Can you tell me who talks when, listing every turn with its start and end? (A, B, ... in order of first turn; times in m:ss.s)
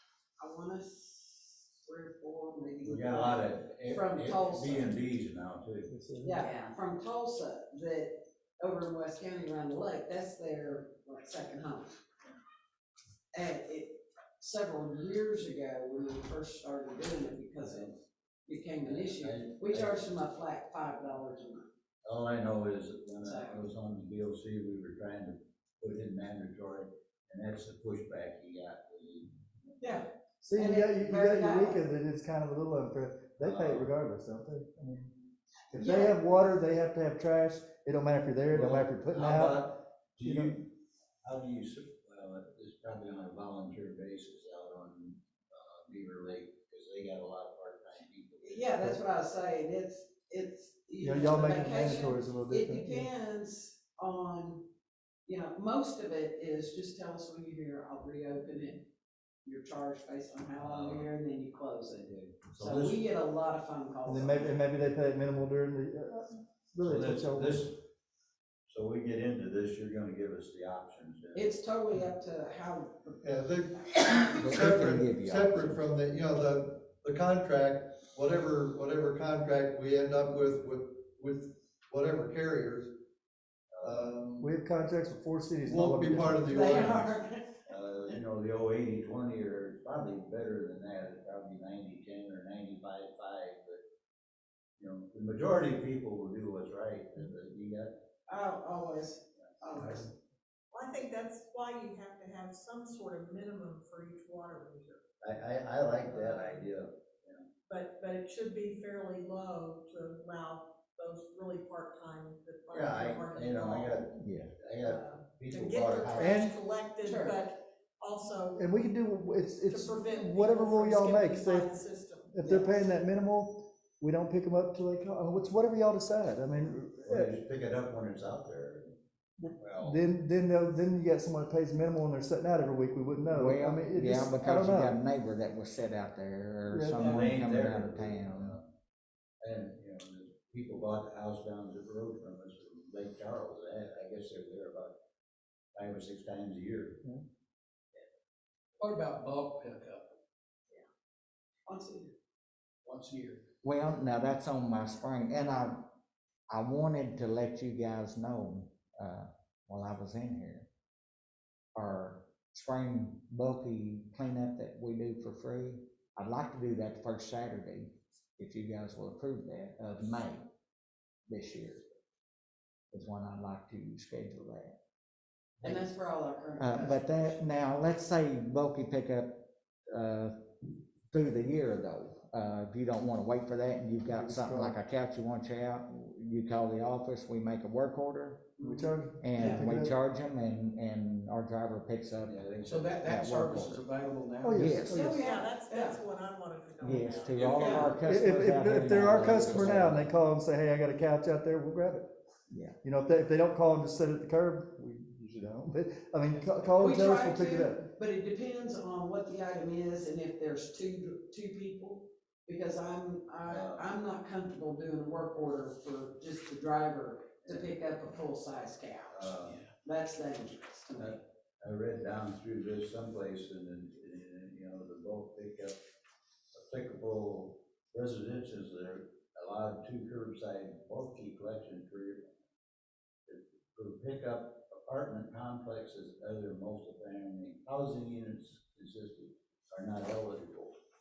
0:00.4-0:05.0 A
0:02.8-0:05.9 B
0:05.9-0:06.5 C
0:06.2-0:12.0 A
0:13.3-0:18.0 A
0:18.5-0:21.7 A
0:18.8-0:20.0 B
0:22.0-0:29.8 B
0:23.2-0:23.7 A
0:29.8-0:31.8 A
0:30.4-0:35.2 C
0:33.4-0:33.9 B
0:35.7-0:40.6 C
0:35.8-0:36.2 A
0:38.5-0:40.7 B
0:41.2-0:48.7 B
0:48.4-0:54.7 A
0:51.0-0:53.1 C
0:55.2-0:58.9 A
0:59.4-1:04.6 A
1:00.6-1:01.1 B
1:02.4-1:03.0 B
1:04.0-1:07.6 C
1:06.8-1:07.8 B
1:08.7-1:11.5 B
1:11.3-1:14.5 A
1:13.2-1:22.9 D
1:14.4-1:15.8 E
1:23.8-1:24.1 B
1:23.8-1:24.5 D
1:24.4-1:27.0 C
1:25.6-1:27.2 D
1:26.5-1:27.6 A
1:27.7-1:33.8 B
1:34.8-1:38.0 B
1:38.3-1:40.1 A
1:40.7-1:45.0 F
1:45.2-1:47.5 B
1:45.9-1:46.7 F
1:47.7-1:54.1 F
1:52.7-1:56.5 B
1:54.2-1:54.5 E
1:54.8-1:58.7 F
1:56.2-1:56.6 C
1:57.0-1:57.5 A
1:58.6-2:01.7 C
1:59.6-2:02.4 F
2:02.3-2:07.4 C
2:02.4-2:02.7 A
2:07.0-2:08.9 B
2:09.6-2:10.0 B
2:09.8-2:15.0 C
2:13.3-2:18.6 E
2:16.7-2:17.1 C
2:17.0-2:18.6 B
2:19.4-2:24.9 B
2:25.8-2:27.0 B
2:28.8-2:30.2 G
2:31.6-2:32.1 A
2:32.8-2:33.4 G
2:33.6-2:35.9 E
2:36.5-2:40.7 E
2:41.8-2:50.4 E
2:51.3-2:51.8 E
2:52.9-2:54.8 E
2:55.6-2:57.1 A
2:56.6-3:00.3 E
3:01.1-3:08.5 E
3:04.1-3:04.8 C
3:08.6-3:09.6 A
3:08.6-3:09.9 C
3:09.2-3:12.4 E
3:12.2-3:13.0 B
3:12.6-3:15.8 G
3:13.0-3:13.8 E
3:14.4-3:15.2 C
3:14.5-3:15.0 E
3:14.9-3:16.0 A
3:15.0-3:17.8 F
3:16.8-3:20.1 E
3:17.4-3:17.9 G
3:17.6-3:17.9 A
3:18.1-3:22.1 C
3:22.8-3:27.9 C
3:26.8-3:39.3 A
3:33.4-3:33.9 B
3:39.1-3:39.6 B
3:39.8-3:41.2 A
3:41.0-3:45.8 B
3:46.5-3:52.3 B
3:53.3-4:00.8 B